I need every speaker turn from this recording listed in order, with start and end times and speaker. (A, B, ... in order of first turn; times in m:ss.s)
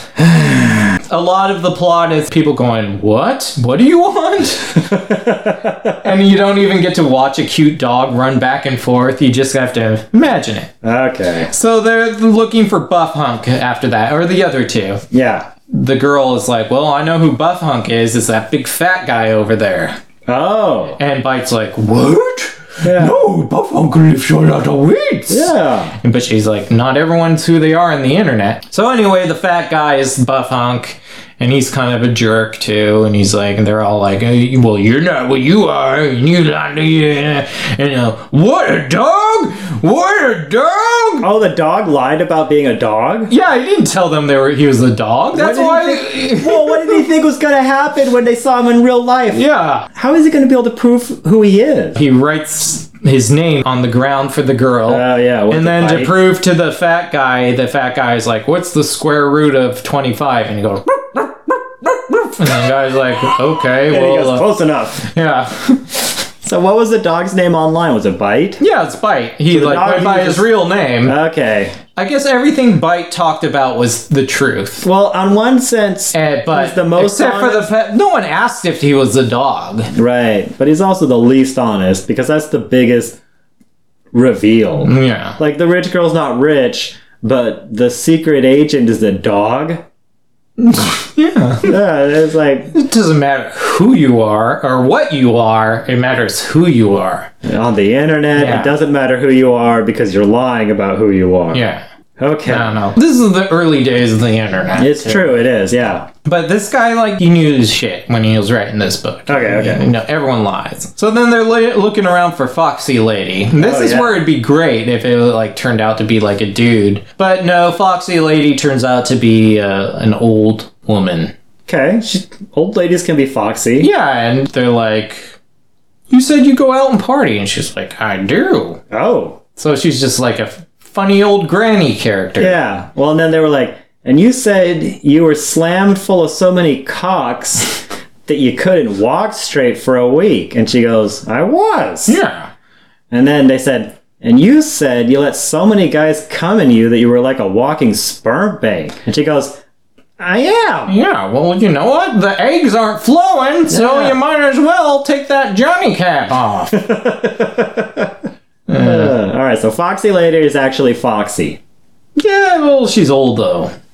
0:00.2-0:01.0 A
0:01.1-0:04.9 B
0:04.8-0:06.0 A
0:06.0-0:10.7 B
0:10.8-0:11.5 A
0:11.5-0:15.0 B
0:15.1-0:15.5 A
0:15.7-0:20.0 B
0:20.3-0:21.0 A
0:21.0-0:41.2 B
0:22.8-0:23.2 A
0:25.3-0:26.0 A
0:41.2-0:43.3 A
0:43.3-0:47.0 B
0:45.3-0:52.0 A
0:49.3-0:49.9 B
0:52.0-1:04.5 B
0:54.9-0:56.1 A
1:03.9-1:05.1 A
1:05.1-1:06.2 B
1:06.4-1:08.6 A
1:08.6-1:11.2 B
1:09.5-1:10.5 A
1:11.0-1:11.8 A
1:12.0-1:14.8 B
1:14.8-1:17.6 A
1:16.1-1:19.9 B
1:19.9-1:23.2 A
1:24.1-1:29.8 A
1:24.8-1:25.4 B
1:30.6-1:31.8 B
1:31.6-1:32.7 A
1:32.7-1:37.3 B
1:37.4-1:41.6 A
1:38.3-1:38.7 B
1:41.5-1:41.8 B
1:42.2-1:42.8 A
1:42.4-1:45.3 B
1:44.8-1:46.1 A
1:46.2-2:01.3 B
1:49.3-1:49.8 A
1:53.6-1:54.2 A
2:01.7-2:03.9 A
2:03.8-2:05.3 B
2:06.1-2:08.8 B
2:08.9-2:09.4 A
2:09.6-2:12.6 B
2:12.4-2:22.2 A
2:22.0-2:22.5 B
2:23.1-2:29.6 A
2:30.2-2:30.9 A
2:30.9-2:36.8 B
2:33.7-2:34.2 A
2:36.7-2:38.1 A
2:38.7-2:39.2 B
2:38.7-2:41.6 A
2:42.2-2:43.7 B